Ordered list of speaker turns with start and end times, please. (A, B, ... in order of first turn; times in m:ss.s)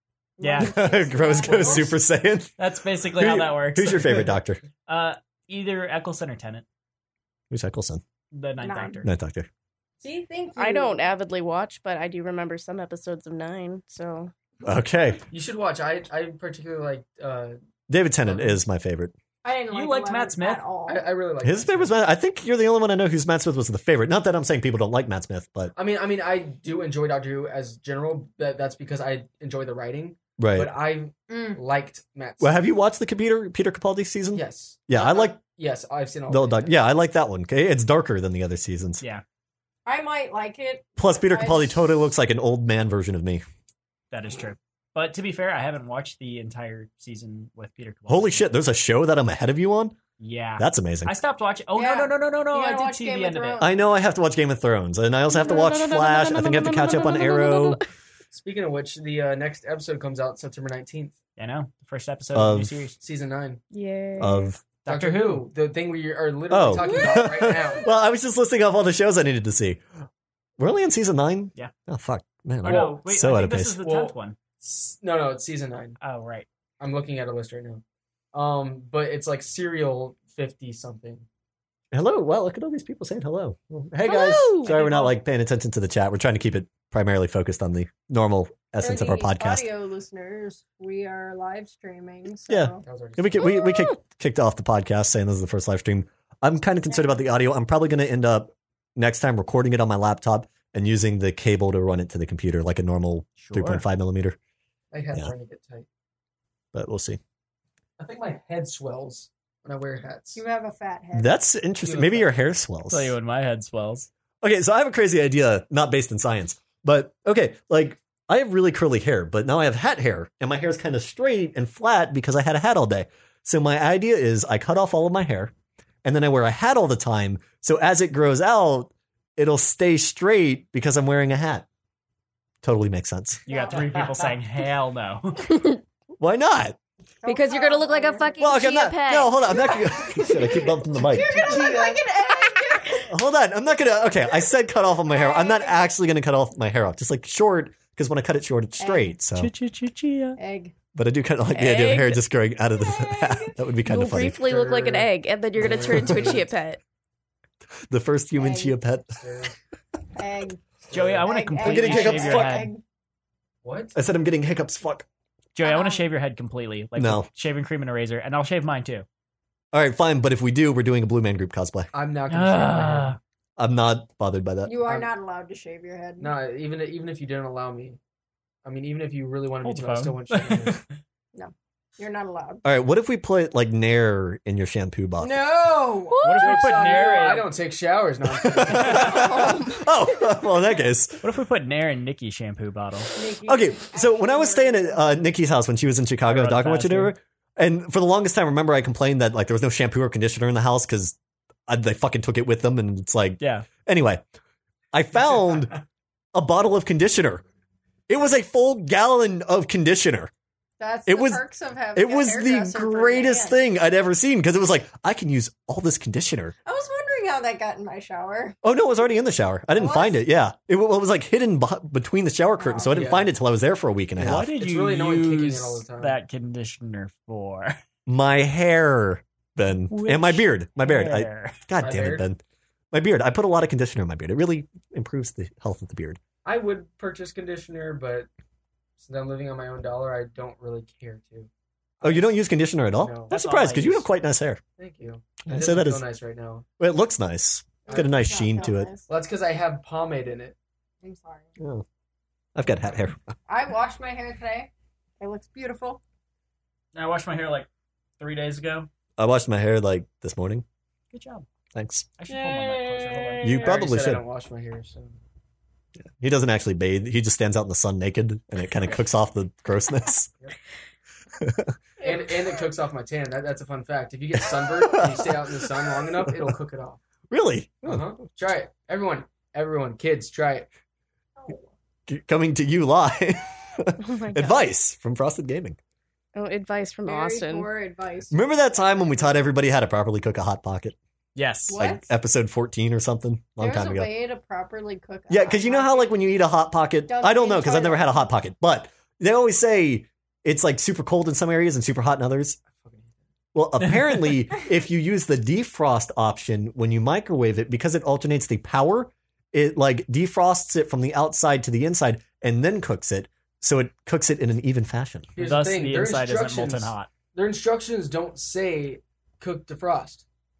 0:00.4-0:02.0 A
0:00.4-0:00.7 B
0:00.6-0:02.5 C
0:01.4-0:01.9 D
0:02.6-0:04.3 B
0:03.2-0:04.6 C
0:04.8-0:06.6 B
0:07.5-0:08.0 C
0:08.3-0:09.1 B
0:08.6-0:09.0 A
0:09.0-0:09.5 C
0:10.0-0:11.0 A
0:10.6-0:14.3 E
0:14.6-0:15.2 C
0:15.3-0:17.6 D
0:17.9-0:19.1 C
0:18.2-0:18.6 D
0:19.4-0:21.1 A
0:19.7-0:20.6 B
0:20.8-0:21.9 D
0:21.4-0:25.7 C
0:25.7-0:32.6 D
0:30.4-0:30.7 C
0:31.3-0:31.6 A
0:32.4-0:35.4 C
0:34.3-0:36.8 D
0:36.3-0:39.0 C
0:39.8-0:41.8 A
0:41.0-0:43.4 C
0:44.1-0:48.4 B
0:48.1-0:50.0 C
0:50.2-0:53.6 B
0:50.6-0:51.1 C
0:51.7-0:53.7 A
0:53.6-0:57.8 C
0:55.3-0:57.8 E
0:58.3-1:01.2 D
1:01.4-1:03.0 B
1:02.3-1:02.8 C
1:03.0-1:03.6 D
1:03.7-1:04.5 E
1:04.2-1:04.6 C
1:04.8-1:05.4 B
1:04.9-1:07.8 D
1:06.5-1:09.8 C
1:06.8-1:07.2 E
1:10.6-1:13.8 C
1:12.6-1:14.4 B
1:12.6-1:13.0 D
1:13.8-1:16.0 D
1:16.0-1:16.4 B
1:16.8-1:21.2 D
1:21.9-1:29.6 C
1:24.0-1:24.9 E
1:28.8-1:32.8 A
1:32.5-1:44.4 C
1:32.8-1:33.5 D
1:33.4-1:34.0 E
1:36.9-1:37.2 A
1:43.4-1:43.8 B
1:44.9-1:45.9 D
1:46.7-1:47.2 C
1:48.0-1:50.4 D
1:50.4-1:51.3 A
1:51.1-1:53.1 C
1:51.8-1:52.3 D
1:52.9-1:54.1 B
1:54.4-2:05.5 C
2:06.0-2:11.6 C
2:12.6-2:13.4 C
2:13.5-2:15.4 B
2:13.5-2:13.8 A
2:13.6-2:14.1 D
2:16.2-2:16.8 C
2:17.2-2:18.6 A
2:17.2-2:19.5 E
2:18.4-2:21.7 C
2:19.5-2:23.1 A
2:21.3-2:22.0 D
2:22.3-2:22.8 E
2:23.0-2:29.5 C
2:25.0-2:25.9 A
2:28.8-2:29.2 A
2:29.3-2:30.4 B
2:30.4-2:30.7 A
2:30.9-2:34.4 C
2:31.5-2:32.2 E
2:32.8-2:33.5 A
2:33.8-2:36.8 E
2:34.4-2:36.5 D
2:37.9-2:39.2 C
2:38.4-2:38.8 A
2:39.2-2:39.5 D
2:40.2-2:40.6 A
2:40.9-2:41.3 D
2:40.9-2:42.7 B
2:41.2-2:42.8 A
2:41.6-2:42.6 C
2:43.6-2:44.0 D
2:43.9-2:45.0 C
2:45.5-2:49.0 B
2:45.6-2:46.0 A
2:47.0-2:47.3 C
2:49.7-2:51.9 C
2:51.9-2:53.2 D
2:52.3-2:53.2 B
2:53.6-2:54.7 C
2:54.6-2:56.3 A
2:54.8-2:55.1 D
2:56.2-2:58.0 D
2:58.6-3:00.8 D
2:59.6-3:00.8 B
3:01.3-3:02.6 A
3:02.6-3:05.3 C
3:05.2-3:06.4 A
3:06.1-3:06.4 E
3:06.2-3:07.5 B
3:06.4-3:09.2 D
3:08.3-3:11.2 C
3:08.8-3:09.2 B
3:09.1-3:09.9 E
3:09.2-3:09.6 A
3:11.2-3:13.1 B
3:13.1-3:15.0 A
3:13.5-3:21.2 C
3:16.2-3:17.1 B
3:21.7-3:24.2 C
3:23.4-3:23.7 B
3:24.9-3:25.7 C
3:26.3-3:27.4 C
3:28.1-3:30.3 C
3:30.8-3:33.6 A
3:31.1-3:31.4 C
3:31.9-3:36.5 C
3:36.6-3:38.6 A
3:38.6-3:44.5 C
3:39.7-3:40.2 A
3:42.6-3:43.1 A
3:42.9-3:43.3 D
3:44.2-3:47.8 B
3:44.6-3:46.2 D
3:48.1-3:52.4 C
3:49.9-3:51.6 B
3:51.8-3:52.2 D
3:52.9-3:56.2 C
3:56.4-3:58.3 D
3:59.0-4:01.5 D
4:02.0-4:02.4 D
4:02.0-4:04.6 C
4:02.9-4:03.4 D
4:03.3-4:04.1 B
4:04.8-4:06.6 D
4:05.4-4:06.0 C
4:06.8-4:08.9 C
4:07.8-4:08.1 D
4:07.8-4:09.1 A
4:09.1-4:10.6 D
4:11.0-4:11.5 A
4:11.6-4:11.8 C
4:12.5-4:13.3 C
4:13.5-4:16.0 A
4:16.9-4:17.7 B
4:18.2-4:18.9 B
4:19.2-4:20.6 C
4:21.1-4:21.4 B
4:21.7-4:22.1 C
4:22.2-4:23.8 B
4:22.7-4:23.5 E
4:23.4-4:24.2 C
4:23.6-4:25.2 D
4:26.2-4:30.3 C
4:31.4-4:31.7 C
4:32.0-4:37.0 D
4:34.6-4:36.5 C
4:37.3-4:38.1 C
4:37.8-4:40.7 D
4:41.4-4:41.6 A
4:42.1-4:45.8 C
4:44.0-4:44.6 E
4:46.3-4:47.7 E
4:47.0-4:49.5 A
4:48.3-4:51.0 C
4:51.3-4:51.8 B
4:51.7-4:52.1 A
4:51.8-4:54.1 C
4:53.6-4:56.2 A
4:55.3-5:02.6 C
4:57.1-4:58.3 A
5:02.7-5:03.2 D
5:03.5-5:15.3 C
5:03.8-5:04.4 B
5:15.3-5:20.2 D
5:15.4-5:17.1 B